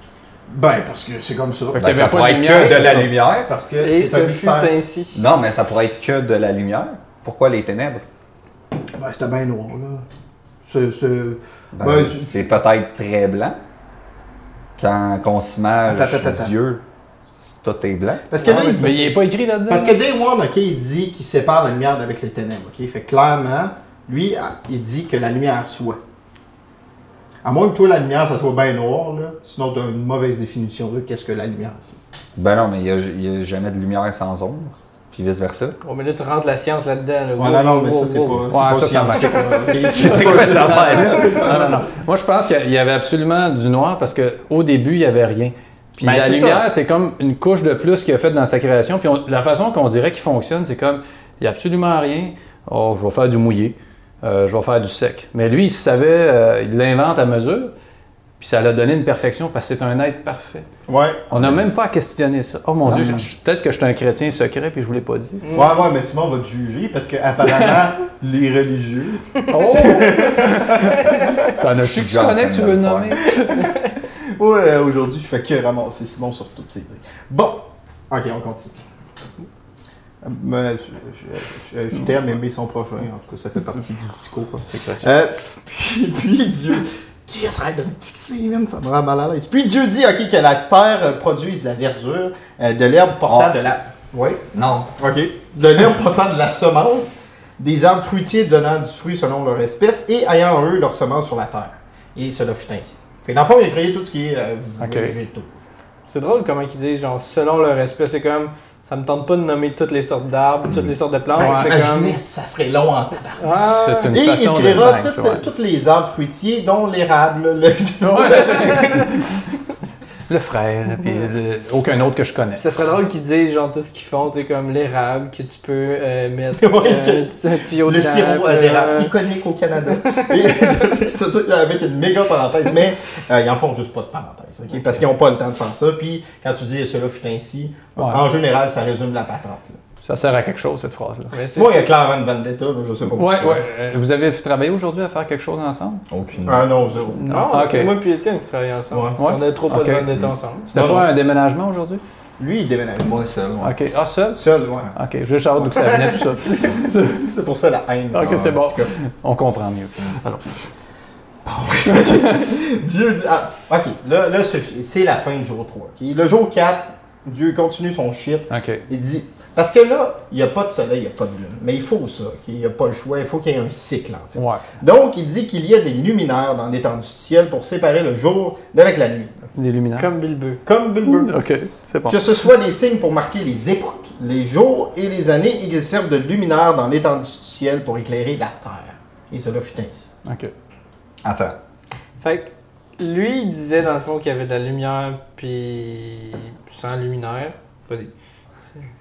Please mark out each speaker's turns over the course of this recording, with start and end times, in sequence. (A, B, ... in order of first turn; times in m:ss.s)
0:00.5-0:04.7 A
0:01.7-0:03.1 B
0:01.8-0:03.5 C
0:03.8-0:05.2 D
0:05.1-0:08.0 C
0:08.9-0:10.0 A
0:10.6-0:12.3 A
0:11.7-0:13.6 C
0:14.8-0:16.8 C
0:15.9-0:16.5 A
0:17.4-0:18.3 C
0:18.3-0:26.0 A
0:18.4-0:20.0 B
0:27.4-0:32.0 A
0:32.4-0:35.8 C
0:35.8-0:38.4 D
0:37.4-0:41.8 A
0:38.5-0:57.7 B
0:39.3-0:39.8 D
0:39.9-0:41.8 C
0:46.0-0:46.6 A
0:58.4-1:00.7 B
1:00.9-1:01.3 A
1:01.3-1:05.4 B
1:01.3-1:01.6 C
1:02.8-1:03.3 C
1:05.4-1:05.7 D
1:05.5-1:11.3 A
1:07.5-1:07.8 B
1:09.5-1:13.7 B
1:09.6-1:10.2 D
1:11.9-1:13.2 C
1:13.2-1:13.5 A
1:14.4-1:18.7 A
1:20.2-1:34.4 A
1:24.7-1:25.0 B
1:33.3-1:33.5 C
1:34.5-1:34.9 C
1:35.0-1:45.6 A
1:44.8-1:45.1 B
1:46.1-1:52.2 D
1:50.7-1:50.9 C
1:51.4-1:51.8 B
1:51.4-1:59.1 A
1:53.4-1:54.1 D
1:53.5-1:55.4 B
1:58.0-1:59.4 B
2:00.3-2:02.6 B
2:02.6-2:09.1 D
2:06.6-2:19.8 A
2:10.0-2:10.5 D
2:18.0-2:18.2 B
2:20.0-2:21.3 B
2:21.3-2:21.9 D
2:21.5-2:23.6 A
2:23.2-2:26.0 B
2:26.1-2:26.6 C
2:26.4-2:27.5 A
2:27.2-2:30.7 D
2:27.3-2:28.0 B
2:28.9-2:29.2 A
2:29.2-2:30.1 B
2:30.7-2:32.0 B
2:30.7-2:31.1 A
2:32.4-2:33.2 A
2:33.0-2:33.7 C
2:33.6-2:34.4 B
2:34.3-2:34.9 A
2:34.9-2:37.1 B
2:35.8-2:38.9 A
2:38.1-2:40.7 B
2:41.4-2:59.4 A
2:48.5-2:48.8 B
2:54.4-2:54.6 B
2:59.5-3:00.1 B
3:00.0-3:00.6 D
3:00.6-3:01.3 A
3:01.0-3:02.5 B
3:02.1-3:10.1 A
3:10.2-3:10.5 B
3:11.2-3:11.6 C
3:12.2-3:18.1 D